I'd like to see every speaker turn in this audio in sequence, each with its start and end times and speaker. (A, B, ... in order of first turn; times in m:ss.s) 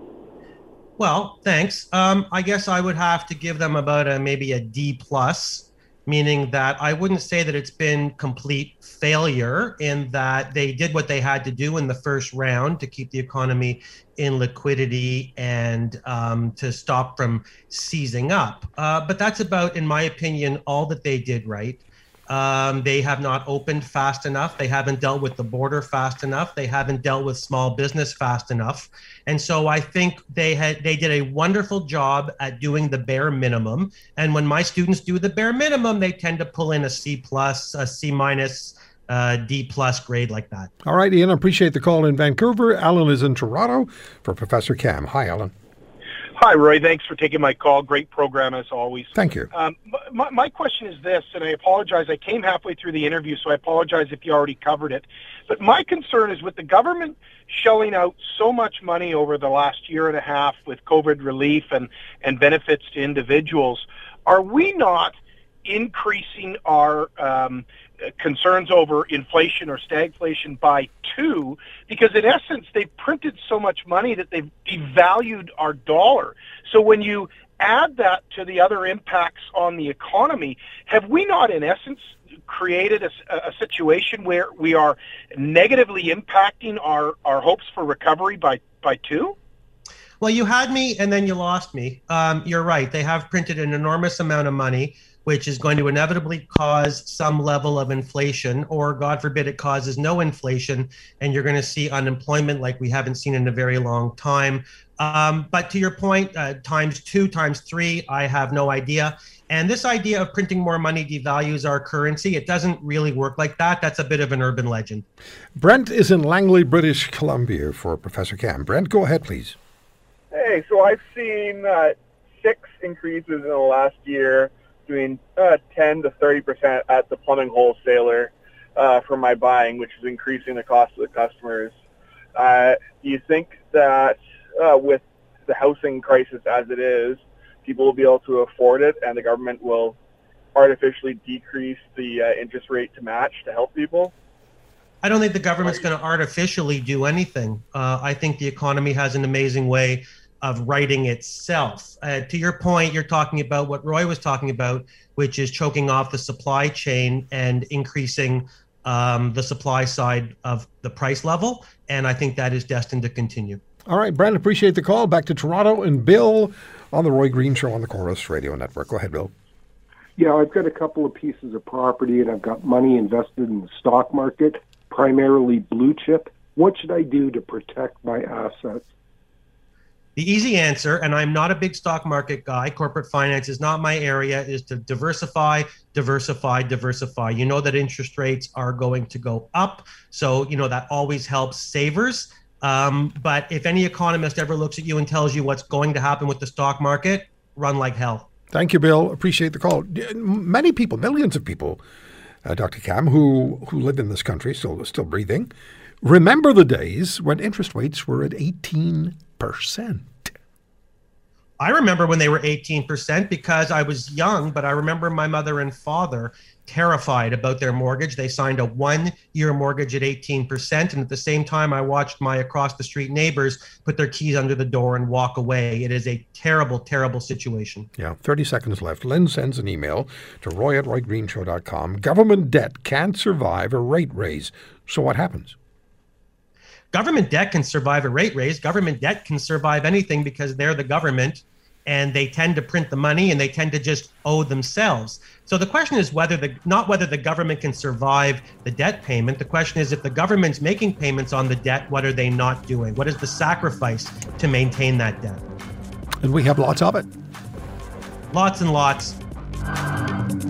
0:01.0-0:40.7 A
0:40.8-0:45.5 B
0:46.4-1:07.6 C
0:49.1-0:49.5 B
1:08.2-1:29.3 C
1:30.2-1:55.0 A
1:55.6-1:59.6 B
2:00.3-2:11.7 D
2:12.3-2:20.0 D
2:20.5-2:24.1 D
2:25.0-2:43.6 A
2:43.9-2:49.3 B
2:50.2-2:58.9 E
3:00.2-3:18.3 A
3:18.5-3:21.8 B
3:22.4-3:25.5 B
3:26.0-3:30.3 B
3:31.6-3:47.9 A
3:48.0-3:55.6 B
3:56.9-4:15.5 A
4:16.2-4:17.1 B
4:18.3-4:19.2 A